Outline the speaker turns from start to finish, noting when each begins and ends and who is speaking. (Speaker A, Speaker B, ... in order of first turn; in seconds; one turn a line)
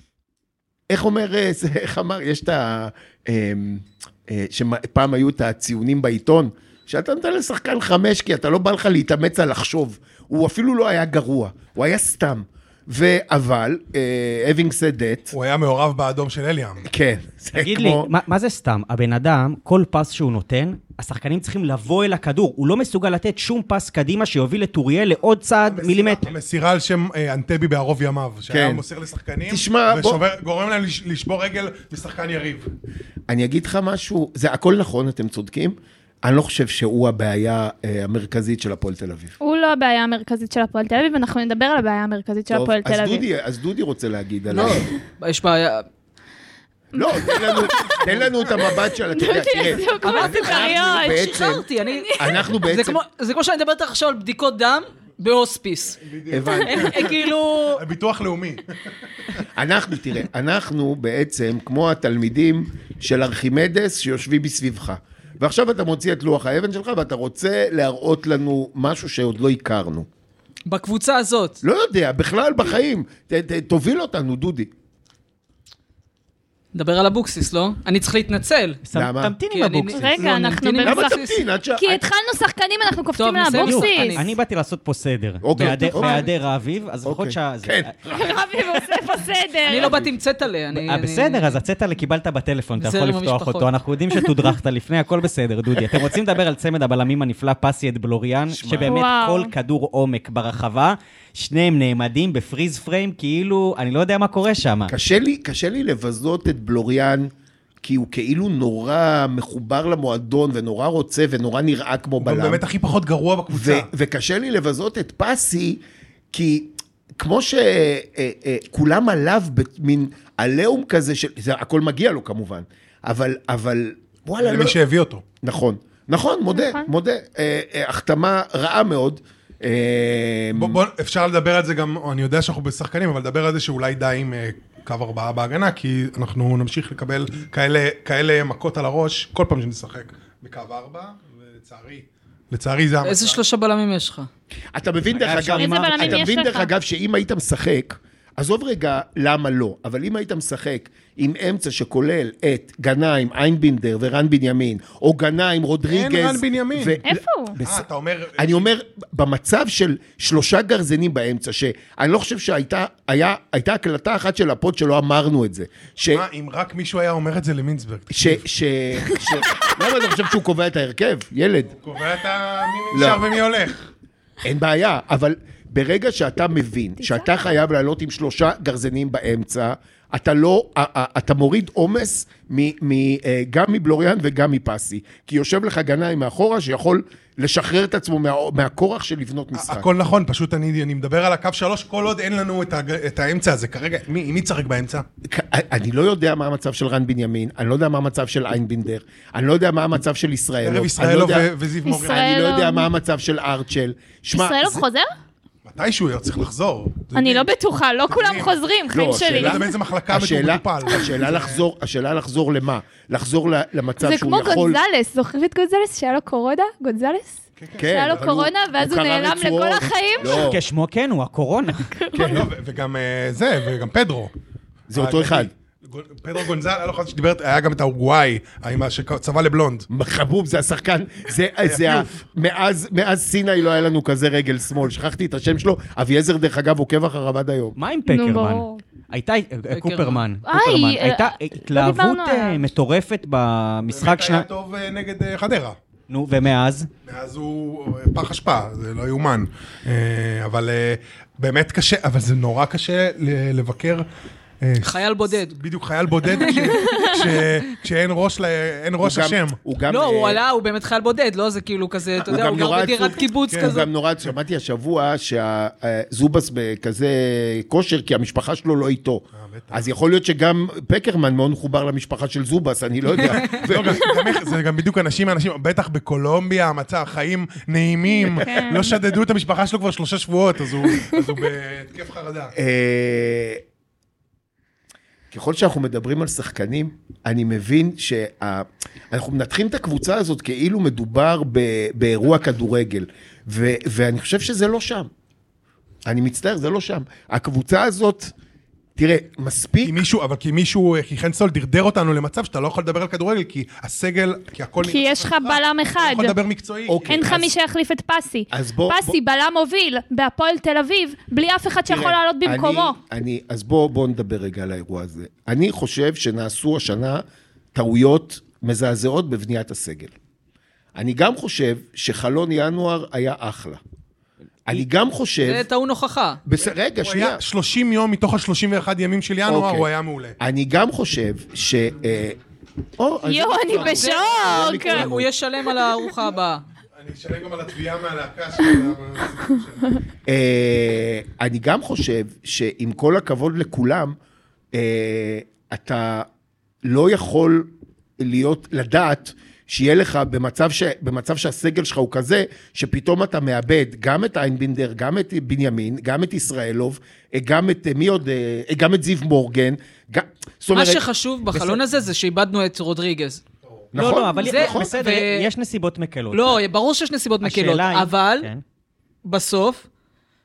Speaker A: 0.9-15.3
Speaker B: 15.3-16.9
Speaker A: 16.8-18.1
Speaker C: 17.5-26.3
Speaker B: 25.6-32.7
Speaker A: 28.5-28.8
Speaker A: 29.5-30.2
Speaker A: 33.3-39.3
Speaker D: 39.4-43.2
Speaker A: 42.5-44.9
Speaker E: 44.5-45.8
Speaker D: 46.9-48.0
Speaker A: 46.9-51.6
Speaker D: 49.1-51.3
Speaker E: 50.0-56.0
Speaker D: 51.9-52.4
Speaker A: 52.2-53.0
Speaker B: 56.0-58.6
Speaker A: 56.3-57.0
Speaker E: 56.6-57.8
Speaker A: 59.5-70.1
Speaker E: 70.7-71.6
Speaker A: 71.6-74.7
Speaker E: 76.7-78.8
Speaker C: 78.8-80.3
Speaker A: 78.9-79.3
Speaker E: 79.5-81.4
Speaker D: 79.9-81.2
Speaker A: 80.8-82.0
Speaker D: 81.8-84.2
Speaker E: 83.2-84.3
Speaker C: 83.5-87.9
Speaker A: 85.4-86.3
Speaker A: 87.0-88.8
Speaker D: 88.1-90.0
Speaker E: 89.7-91.6
Speaker C: 90.7-104.9
Speaker E: 92.8-93.7
Speaker A: 98.5-98.9
Speaker D: 98.8-99.5
Speaker A: 104.9-107.3
Speaker A: 107.8-112.6
Speaker B: 112.2-113.9
Speaker A: 113.5-115.8
Speaker A: 116.3-124.8
Speaker B: 124.4-125.2
Speaker A: 125.4-130.8
Speaker D: 126.5-126.9
Speaker B: 130.5-143.4
Speaker E: 143.0-144.3
Speaker A: 144.7-166.2
Speaker C: 145.1-146.1
Speaker D: 145.5-146.7
Speaker B: 155.9-157.0
Speaker D: 157.0-157.6
Speaker B: 157.6-158.7
Speaker B: 166.1-168.4
Speaker A: 168.1-171.7
Speaker D: 169.2-169.7
Speaker B: 171.7-173.9
Speaker A: 172.9-173.2
Speaker A: 174.4-189.9
Speaker D: 177.0-177.3
Speaker B: 189.6-195.1
Speaker A: 195.2-201.5
Speaker B: 200.6-202.3
Speaker D: 201.8-202.9
Speaker A: 202.0-204.8
Speaker D: 204.3-205.1
Speaker B: 205.7-207.5
Speaker D: 207.1-209.7
Speaker B: 208.1-208.6
Speaker A: 208.9-214.8
Speaker B: 209.1-211.6
Speaker D: 214.0-220.4
Speaker B: 217.6-218.3
Speaker A: 217.8-220.6
Speaker C: 220.3-221.9
Speaker D: 221.8-222.5
Speaker A: 222.1-222.5
Speaker B: 222.2-224.3
Speaker A: 224.9-225.5
Speaker B: 224.9-229.9
Speaker A: 229.9-237.8
Speaker B: 231.6-232.1
Speaker C: 237.8-244.5
Speaker D: 238.1-238.8
Speaker E: 239.7-240.2
Speaker D: 240.4-242.7
Speaker B: 243.9-245.8
Speaker C: 246.1-246.9
Speaker B: 247.1-254.1
Speaker B: 254.6-259.6
Speaker E: 254.8-255.6
Speaker E: 256.3-256.8
Speaker D: 256.4-257.4
Speaker A: 259.0-260.4
Speaker E: 259.9-263.9
Speaker A: 262.2-274.1
Speaker B: 263.5-263.8
Speaker B: 269.4-269.8
Speaker B: 273.1-282.5
Speaker D: 278.1-279.0
Speaker A: 282.5-283.6
Speaker A: 285.3-295.1
Speaker A: 296.1-298.3
Speaker A: 298.9-300.0
Speaker B: 299.8-307.3
Speaker D: 304.8-306.4
Speaker A: 306.9-307.5
Speaker D: 307.1-312.9
Speaker A: 308.5-309.1
Speaker A: 311.9-320.1
Speaker A: 320.9-323.8
Speaker A: 324.6-325.6
Speaker E: 325.4-326.4
Speaker A: 326.4-327.4
Speaker B: 327.0-330.4
Speaker A: 329.4-332.4
Speaker A: 333.0-335.3
Speaker D: 333.2-335.1
Speaker E: 333.7-336.6
Speaker B: 336.9-340.0
Speaker A: 340.3-344.1
Speaker A: 344.7-346.3
Speaker A: 346.8-361.8
Speaker E: 360.7-363.4
Speaker A: 363.9-364.9
Speaker C: 363.9-366.6
Speaker E: 364.3-365.5
Speaker E: 366.3-368.5
Speaker C: 367.4-368.6
Speaker E: 369.2-369.8